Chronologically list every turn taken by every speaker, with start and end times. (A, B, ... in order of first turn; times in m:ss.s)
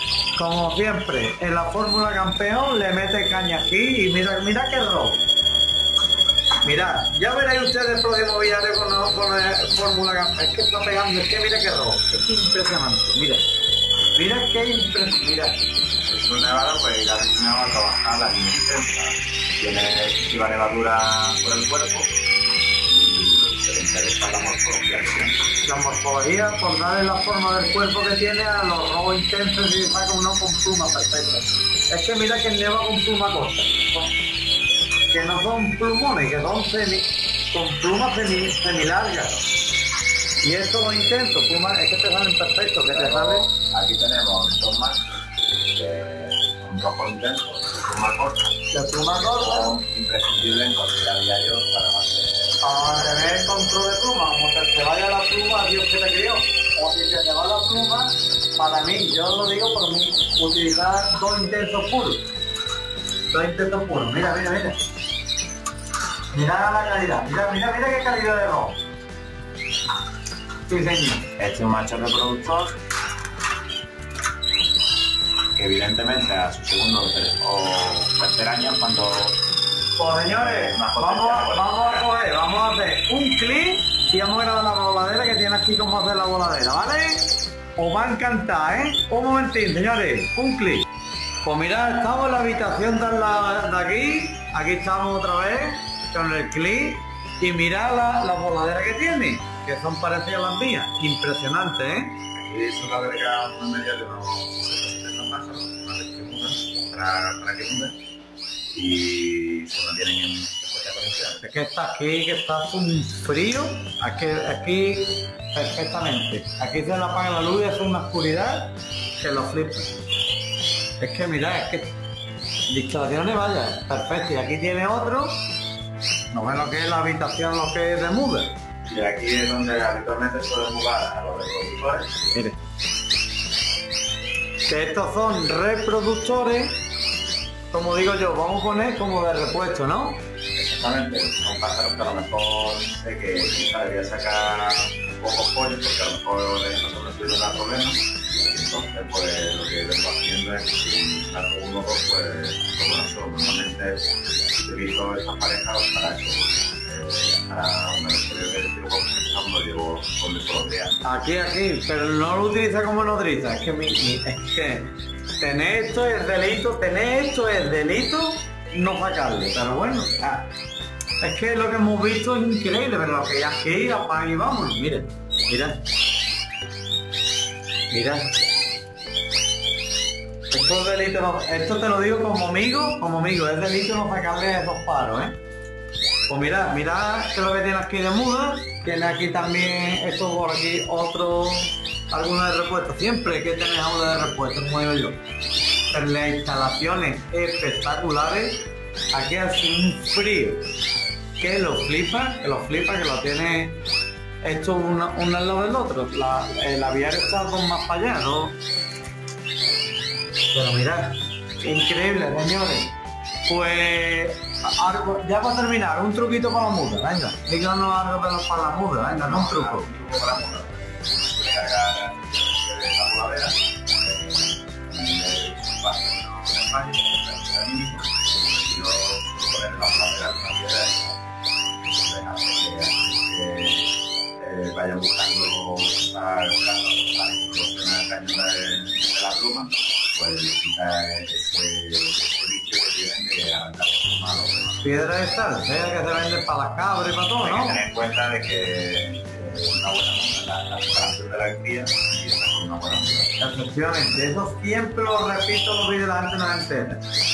0:00.4-0:05.2 A
0:06.6-0:13.5 A
0:14.2-0:15.6 A
0:16.1-0:22.1 B
0:22.9-0:25.4 B
0:25.6-0:34.1 A
0:35.1-0:39.4 A
0:40.4-0:43.5 A
0:42.9-0:45.0 B
0:45.7-0:48.4 B
0:48.7-0:49.7 A
0:49.2-0:53.7 B
0:52.6-1:02.2 A
1:03.3-1:04.8 A
1:06.3-1:08.8 A
1:10.7-1:11.3 A
1:11.4-1:12.8 B
1:15.6-1:19.4 B
1:20.0-1:30.9 A
1:20.2-1:22.1 B
1:31.4-1:42.2 A
1:42.4-1:47.9 B
1:48.7-1:51.4 B
1:51.4-2:00.0 A
2:01.0-2:01.9 A
2:02.7-2:05.4 A
2:06.3-2:08.5 A
2:08.9-2:12.2 B
2:14.7-2:16.8 A
2:17.7-2:20.2 A
2:20.6-2:41.0 B
2:41.0-2:50.5 A
2:51.2-2:55.8 A
2:57.9-2:58.4 A
3:00.5-3:05.4 A
3:06.3-3:15.2 A
3:15.9-3:20.6 A
3:21.4-3:23.8 A
3:24.4-3:28.6 A
3:30.5-3:32.9 A
3:33.5-3:39.8 A
3:39.2-3:51.2 B
3:51.9-4:05.0 B
4:04.8-4:07.8 A
4:07.4-4:13.4 B
4:13.4-4:17.0 A